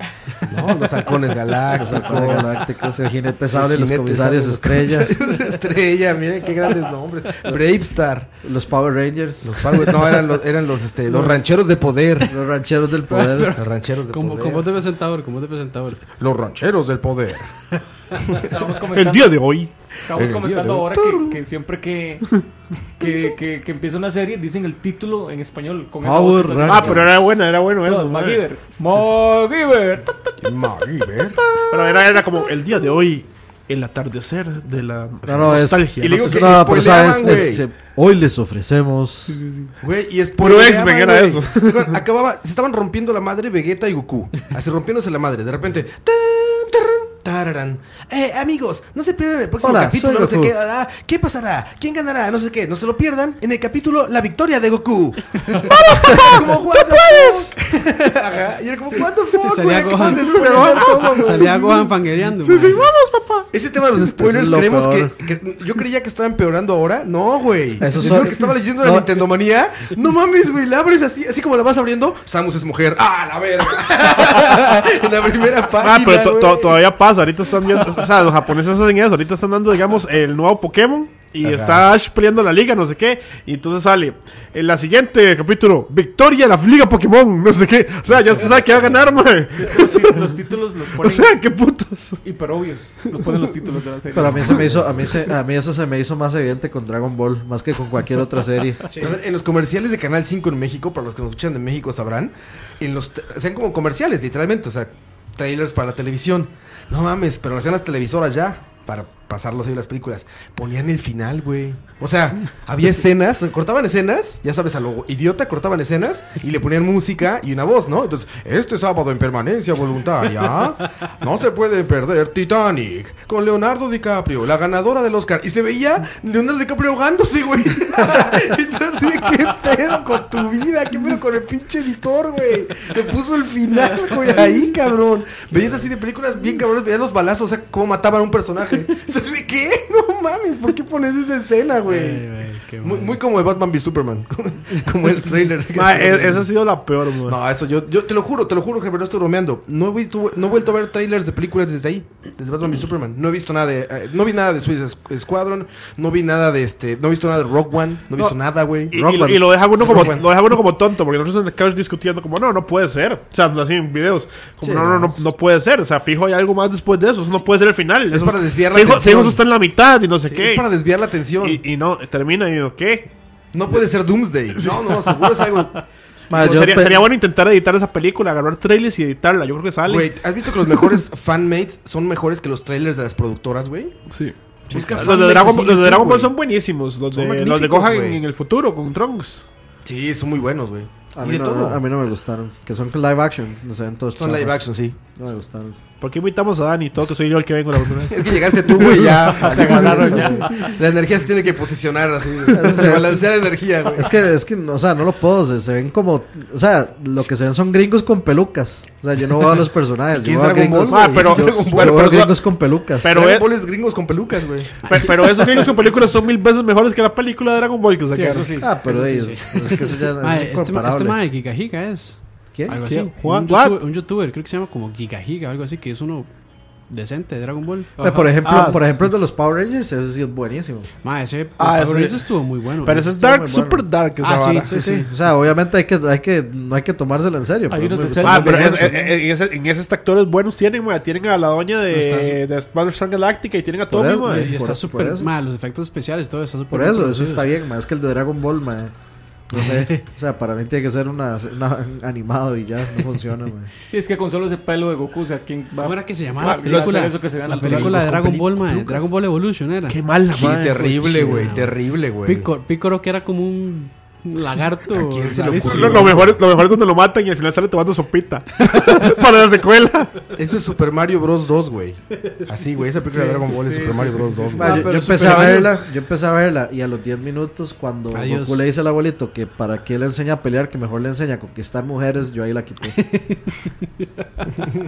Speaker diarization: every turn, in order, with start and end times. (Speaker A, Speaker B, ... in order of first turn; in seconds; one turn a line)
Speaker A: 0.4-2.6
Speaker B: 1.8-5.2
Speaker A: 3.5-8.3
Speaker B: 8.4-10.1
Speaker A: 9.4-12.3
Speaker B: 12.2-13.6
Speaker C: 13.2-13.4
Speaker A: 13.6-14.7
Speaker C: 14.1-16.0
Speaker A: 16.2-17.6
Speaker A: 18.1-18.4
Speaker D: 18.4-19.4
Speaker E: 18.9-19.7
Speaker D: 20.1-22.3
Speaker A: 20.1-21.4
Speaker D: 23.0-30.4
Speaker B: 26.0-27.3
Speaker E: 26.7-28.4
Speaker A: 30.4-31.4
Speaker D: 31.5-32.1
Speaker E: 31.7-36.3
Speaker B: 35.3-39.4
Speaker A: 36.0-37.6
Speaker D: 39.4-39.7
Speaker A: 39.8-61.8
Speaker E: 40.4-41.9
Speaker B: 49.6-50.5
Speaker E: 55.5-57.5
Speaker C: 59.4-62.9
Speaker E: 60.0-61.5
Speaker E: 62.4-63.5
Speaker A: 63.5-76.8
Speaker B: 64.2-65.1
Speaker B: 67.8-69.1
Speaker E: 75.8-90.3
Speaker A: 81.4-81.9
Speaker A: 88.3-89.0
Speaker D: 89.5-91.3
Speaker E: 91.0-92.2
Speaker D: 92.2-94.7
Speaker B: 94.1-98.9
Speaker A: 94.2-95.1
Speaker A: 99.0-142.3
Speaker C: 135.5-135.9
Speaker C: 141.9-143.2
Speaker A: 142.8-146.5
Speaker E: 145.7-147.4
Speaker A: 147.3-159.0
Speaker E: 158.9-170.7
Speaker B: 158.9-160.1
Speaker A: 159.8-160.2
Speaker B: 164.6-165.3
Speaker A: 168.1-169.4
Speaker A: 170.2-171.6
Speaker E: 171.4-173.1
Speaker A: 173.5-175.8
Speaker B: 176.3-177.1
Speaker A: 176.3-176.8
Speaker E: 176.4-180.7
Speaker A: 179.8-184.0
Speaker E: 184.1-189.4
Speaker A: 184.7-186.3
Speaker A: 187.1-188.2
Speaker A: 189.8-191.8
Speaker B: 191.2-195.8
Speaker A: 194.2-195.0
Speaker E: 196.0-200.1
Speaker A: 198.1-204.1
Speaker B: 199.3-200.5
Speaker D: 199.4-200.7
Speaker B: 202.5-203.3
Speaker B: 203.9-213.2
Speaker A: 210.2-212.3
Speaker E: 210.9-212.3
Speaker E: 213.0-213.5
Speaker A: 213.0-215.0
Speaker E: 214.9-218.5
Speaker D: 218.1-218.7
Speaker B: 218.6-221.2
Speaker C: 218.8-226.3
Speaker B: 222.5-222.8
Speaker E: 222.9-223.8
Speaker C: 226.9-227.9
Speaker E: 228.0-228.8
Speaker B: 228.0-230.9
Speaker C: 231.0-233.2
Speaker E: 231.6-234.8
Speaker B: 232.9-233.9
Speaker C: 234.2-235.4
Speaker B: 234.7-239.1
Speaker D: 237.7-239.0
Speaker E: 238.2-244.5
Speaker C: 241.9-242.4
Speaker B: 243.9-245.3
Speaker C: 244.2-247.5
Speaker B: 246.7-248.9
Speaker B: 249.5-253.7
Speaker C: 249.5-250.0
Speaker D: 253.9-258.2
Speaker C: 255.8-260.0
Speaker E: 256.4-258.8
Speaker B: 258.1-259.1
Speaker E: 259.9-261.3
Speaker A: 260.3-262.5
Speaker C: 261.0-266.2
Speaker A: 264.9-266.4
Speaker E: 265.6-270.3
Speaker A: 270.4-275.0
Speaker C: 273.1-275.8
Speaker D: 273.6-274.2
Speaker B: 274.6-283.0
Speaker C: 278.1-278.6
Speaker C: 283.0-284.5